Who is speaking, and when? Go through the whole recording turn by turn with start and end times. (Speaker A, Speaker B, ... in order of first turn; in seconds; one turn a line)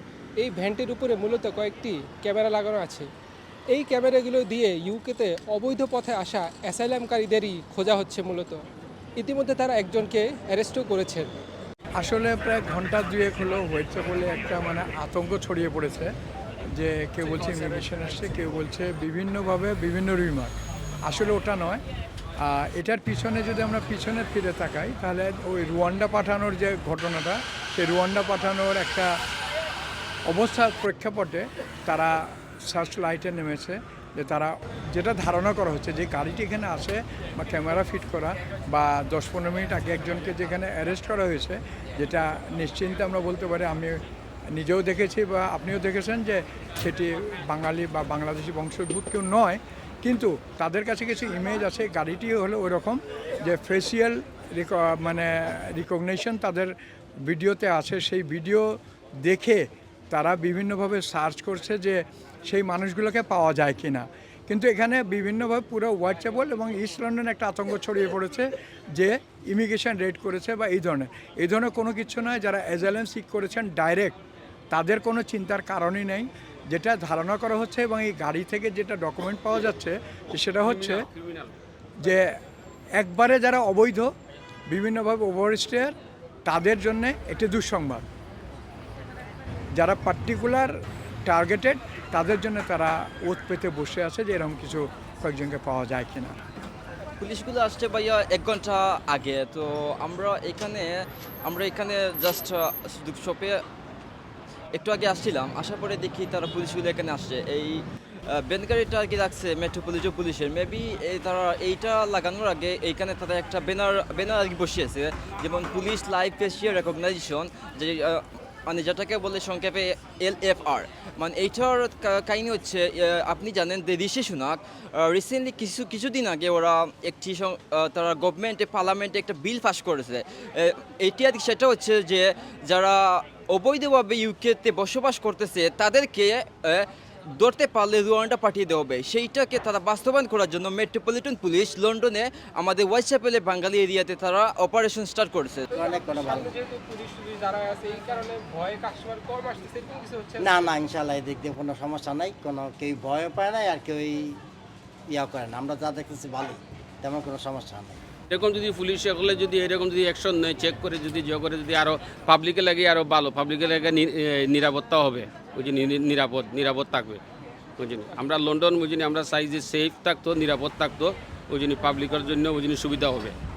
Speaker A: 0.4-3.1
Speaker A: 3.7-8.6
Speaker A: 9.2-11.3
Speaker B: 12.0-16.1
Speaker B: 16.7-20.5
Speaker B: 21.0-21.8
Speaker B: 22.4-29.1
Speaker B: 30.3-74.2
Speaker B: 74.7-81.1
Speaker C: 80.6-81.5
Speaker B: 82.0-82.4
Speaker B: 83.0-84.1
Speaker B: 84.7-85.9
Speaker B: 86.5-88.0
Speaker B: 89.7-90.7
Speaker B: 91.3-96.4
Speaker D: 97.2-100.9
Speaker D: 101.4-103.6
Speaker D: 104.7-107.8
Speaker D: 108.3-145.7
Speaker A: 145.7-150.7
Speaker E: 145.8-146.5
Speaker E: 150.4-154.4
Speaker E: 155.1-158.0
Speaker C: 158.3-167.2
Speaker C: 167.8-173.3